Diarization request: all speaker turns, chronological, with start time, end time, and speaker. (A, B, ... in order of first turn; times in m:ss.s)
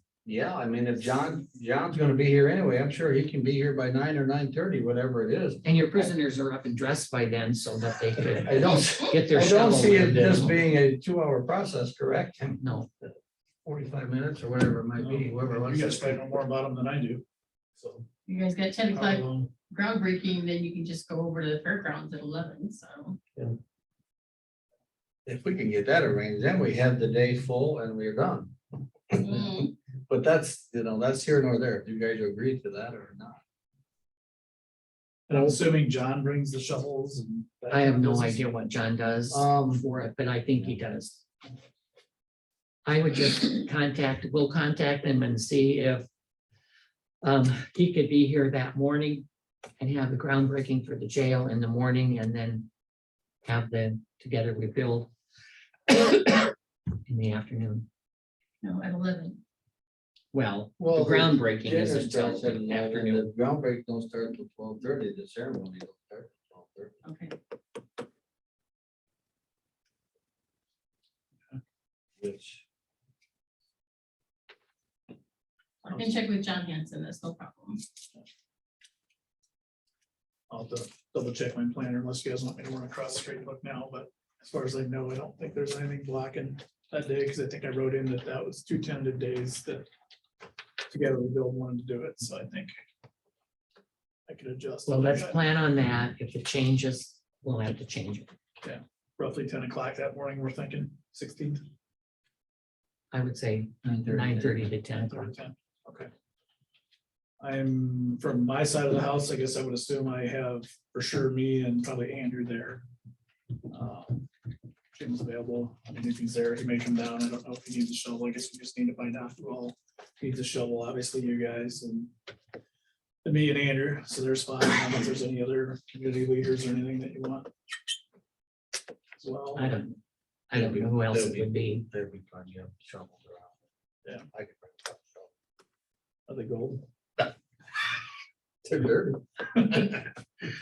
0:00.2-0:06.1 A
0:05.6-0:10.6 B
0:08.5-0:13.1 A
0:12.6-0:12.9 B
0:13.6-0:16.1 A
0:14.9-0:17.2 C
0:17.7-0:18.0 C
0:18.2-0:23.2 D
0:18.9-0:19.5 C
0:25.2-0:28.6 A
0:29.1-0:33.4 A
0:29.2-0:29.7 D
0:35.3-0:38.4 C
0:37.7-0:41.2 B
0:39.3-0:39.8 A
0:42.8-0:46.1 B
0:47.2-0:49.2 B
0:49.8-0:52.7 B
0:53.4-0:55.1 B
0:55.9-0:56.4 B
0:57.1-0:57.9 B
0:58.6-0:59.4 D
1:00.3-1:03.3 B
1:00.8-1:06.9 A
1:07.0-1:07.3 D
1:12.2-1:12.6 A
1:15.8-1:17.8 D
1:15.8-1:16.2 C
1:20.5-1:29.8 C
1:30.9-1:32.7 C
1:34.3-1:35.4 C
1:34.8-1:38.3 B
1:38.6-1:41.6 C
1:43.1-1:45.3 B
1:43.8-1:44.7 A
1:44.9-1:46.1 C
1:47.4-1:52.8 C
1:53.7-1:54.2 C
1:54.9-2:02.1 C
2:03.2-2:07.5 C
2:09.2-2:09.8 C
2:09.6-2:10.0 B
2:10.5-2:11.9 B
2:10.5-2:13.5 A
2:14.3-2:15.3 A
2:16.3-2:16.9 C
2:18.6-2:19.9 A